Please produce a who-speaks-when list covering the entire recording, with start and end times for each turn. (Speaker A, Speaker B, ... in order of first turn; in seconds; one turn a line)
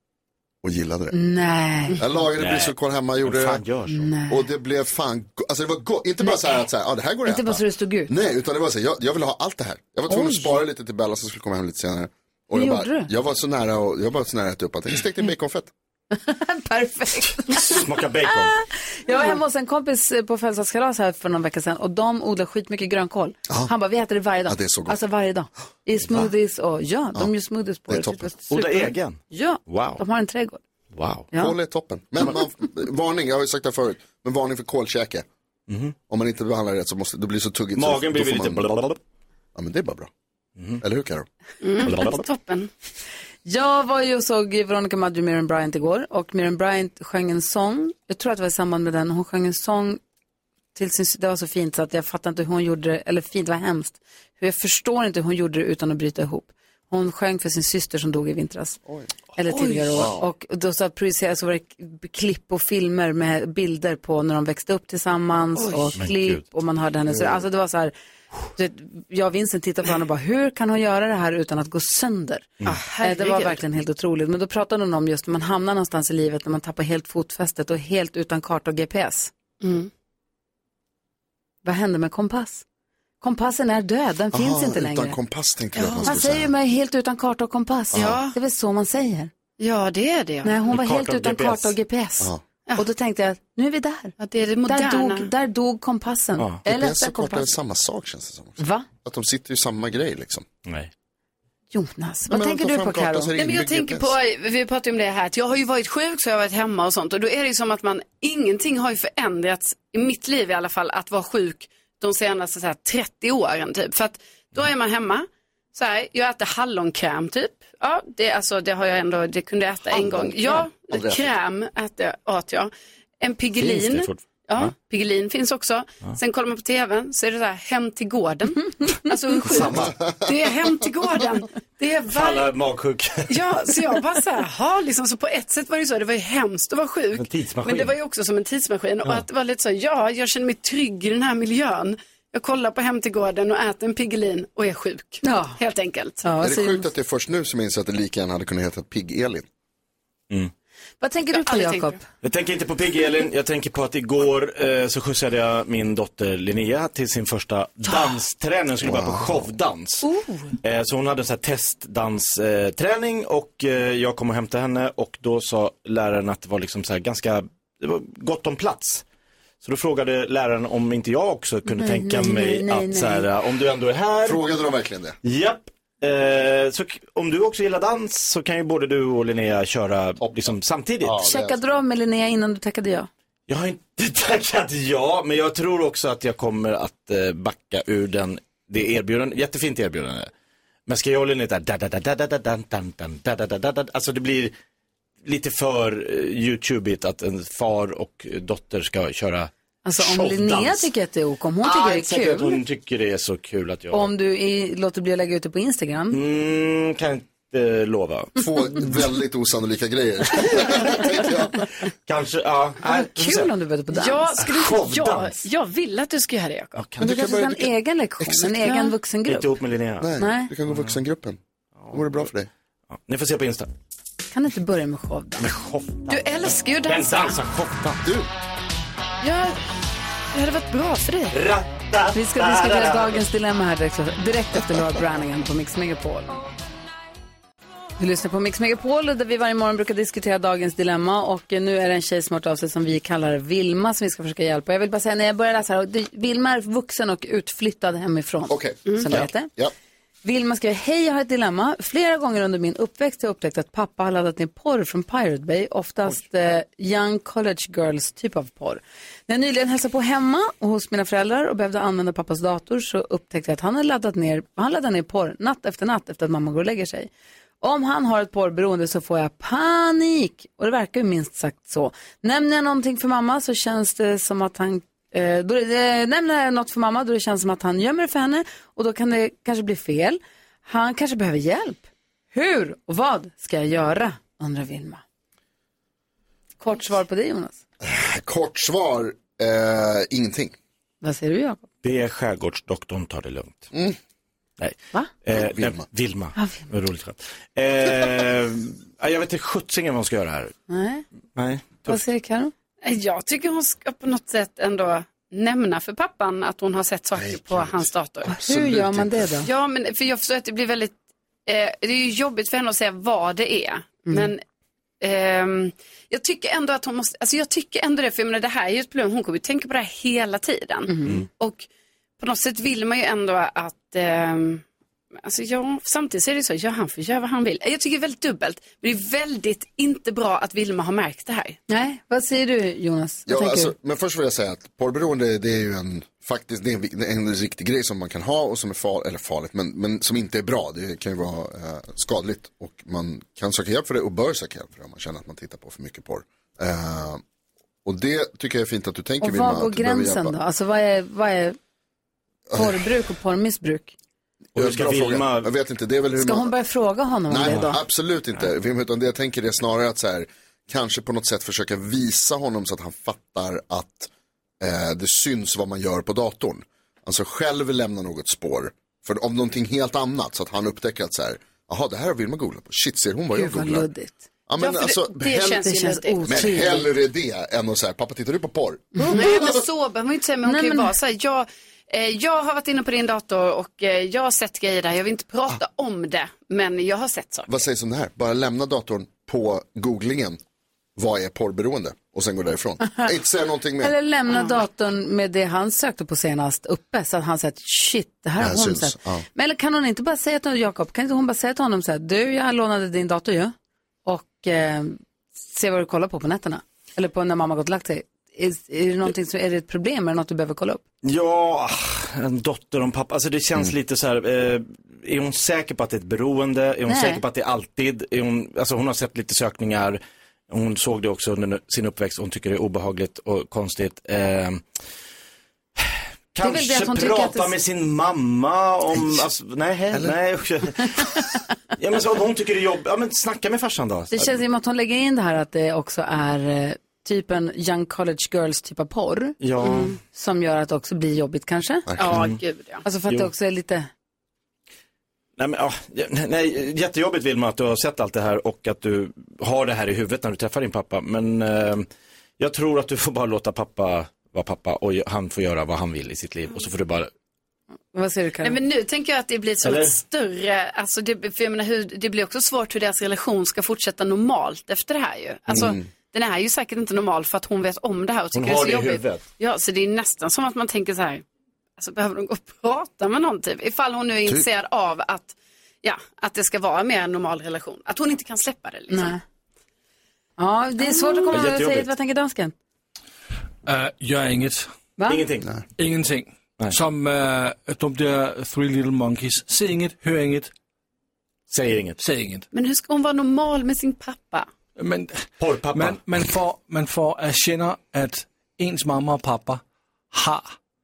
Speaker A: 0.6-1.2
Speaker B: 1.1-2.0
Speaker A: 2.0-3.6
Speaker C: 2.4-4.1
Speaker B: 3.9-4.4
Speaker A: 4.3-15.7
Speaker B: 7.3-8.1
Speaker B: 10.1-10.6
Speaker B: 12.5-13.1
Speaker B: 16.1-17.8
Speaker C: 17.5-18.6
Speaker B: 19.1-30.6
Speaker A: 24.5-25.0
Speaker A: 27.9-28.3
Speaker C: 28.5-30.0
Speaker C: 30.9-31.3
Speaker A: 31.3-35.3
Speaker C: 35.7-36.0
Speaker A: 36.1-38.7
Speaker C: 37.8-39.0
Speaker A: 39.5-40.1
Speaker A: 40.8-41.3
Speaker D: 41.6-42.7
Speaker C: 41.8-42.2
Speaker B: 43.5-50.0
Speaker B: 50.8-58.8
Speaker B: 59.4-67.9
Speaker C: 66.0-66.4
Speaker B: 68.6-79.3
Speaker D: 72.6-73.6
Speaker D: 79.6-79.9
Speaker B: 81.6-82.6
Speaker B: 83.2-85.2
Speaker A: 84.3-86.5
Speaker D: 85.8-86.2
Speaker B: 86.1-89.3
Speaker A: 87.9-88.2
Speaker D: 87.9-88.4
Speaker D: 89.6-90.6
Speaker B: 90.4-94.2
Speaker C: 90.7-91.8
Speaker D: 94.2-95.3
Speaker B: 94.7-97.5
Speaker A: 96.7-100.5
Speaker B: 98.6-98.9
Speaker C: 100.7-100.9
Speaker B: 101.7-103.3
Speaker A: 102.3-104.2
Speaker D: 103.4-132.5
Speaker A: 119.9-121.3
Speaker C: 123.6-124.7
Speaker C: 129.4-130.0
Speaker C: 132.1-133.4
Speaker D: 133.3-146.2
Speaker C: 137.2-137.9
Speaker B: 145.2-145.6
Speaker B: 146.2-146.9
Speaker A: 146.4-149.5
Speaker B: 151.0-152.0
Speaker D: 151.3-152.0
Speaker C: 152.2-160.1
Speaker A: 158.8-159.5
Speaker B: 160.0-160.5
Speaker C: 160.6-169.0
Speaker C: 169.6-174.4
Speaker B: 171.7-173.3
Speaker A: 174.2-175.2
Speaker C: 175.2-181.2
Speaker A: 181.0-181.6
Speaker B: 181.2-183.1
Speaker C: 183.5-190.3
Speaker C: 190.9-194.6
Speaker C: 195.2-200.9
Speaker B: 199.8-202.6
Speaker C: 201.6-204.1
Speaker B: 203.9-206.2
Speaker C: 206.1-208.5
Speaker A: 208.4-211.7
Speaker C: 212.1-213.5
Speaker B: 212.8-214.4
Speaker D: 213.9-216.8
Speaker C: 214.4-215.4
Speaker C: 216.8-217.5
Speaker A: 217.0-217.7
Speaker B: 217.0-219.5
Speaker A: 218.2-218.5
Speaker C: 219.2-220.1
Speaker A: 220.0-221.4
Speaker B: 220.2-220.5
Speaker C: 220.7-221.0
Speaker C: 221.8-222.2
Speaker A: 221.9-222.5
Speaker C: 222.9-223.7
Speaker B: 224.3-225.5
Speaker C: 225.4-228.0
Speaker D: 226.1-227.4
Speaker A: 228.0-228.3
Speaker D: 229.2-229.6
Speaker D: 230.3-231.4
Speaker C: 231.3-233.2
Speaker B: 232.1-236.3
Speaker B: 238.0-249.5
Speaker A: 248.5-249.7
Speaker B: 250.2-267.1
Speaker B: 267.6-285.0
Speaker B: 286.6-287.6
Speaker A: 287.8-290.5
Speaker B: 291.0-291.6
Speaker C: 291.8-293.7
Speaker A: 293.7-294.0
Speaker C: 294.6-300.6
Speaker A: 295.3-295.9
Speaker B: 296.4-296.7
Speaker B: 300.7-301.1
Speaker C: 301.4-302.0
Speaker B: 301.9-302.5
Speaker D: 302.8-308.3
Speaker A: 307.3-307.7
Speaker B: 308.3-309.5
Speaker A: 308.3-309.3
Speaker D: 309.4-310.9
Speaker D: 311.5-314.4
Speaker D: 315.0-321.6
Speaker B: 320.9-321.2
Speaker D: 322.2-324.6
Speaker D: 325.2-331.6
Speaker B: 331.7-333.7
Speaker A: 333.3-347.2
Speaker A: 347.9-350.4
Speaker B: 349.2-351.6
Speaker A: 352.5-352.8
Speaker B: 352.5-353.9
Speaker A: 354.5-356.5
Speaker C: 354.6-355.5
Speaker B: 356.2-357.8
Speaker A: 357.3-373.9
Speaker B: 373.3-374.2
Speaker A: 374.5-375.6
Speaker D: 374.6-376.7
Speaker B: 375.6-376.9
Speaker A: 376.3-379.6
Speaker B: 379.0-379.3
Speaker D: 379.1-387.5
Speaker B: 380.5-380.9
Speaker A: 387.5-390.4
Speaker A: 391.0-393.9
Speaker B: 393.8-403.5
Speaker D: 394.3-394.6
Speaker A: 398.4-399.2
Speaker B: 404.1-410.8
Speaker C: 411.0-424.6
Speaker B: 416.9-417.2
Speaker C: 425.8-431.2
Speaker B: 426.4-427.5
Speaker C: 431.8-434.4
Speaker B: 434.1-439.4
Speaker C: 439.4-439.9
Speaker D: 439.6-439.9
Speaker B: 440.0-441.9
Speaker A: 441.9-442.2
Speaker D: 442.0-442.8
Speaker C: 442.1-442.4
Speaker B: 442.9-443.9
Speaker C: 445.4-451.9
Speaker C: 452.4-457.1
Speaker B: 457.9-458.6
Speaker D: 458.4-471.2
Speaker C: 459.6-460.0
Speaker A: 465.5-465.8
Speaker C: 468.3-469.2
Speaker D: 471.8-479.2
Speaker B: 478.9-479.2
Speaker B: 480.4-482.5
Speaker C: 481.3-481.9
Speaker E: 483.7-484.7
Speaker B: 485.0-485.3
Speaker C: 485.1-485.6
Speaker E: 485.8-490.5
Speaker C: 491.5-492.0
Speaker E: 492.0-492.4
Speaker D: 492.5-494.5
Speaker E: 494.8-500.5
Speaker C: 495.4-496.0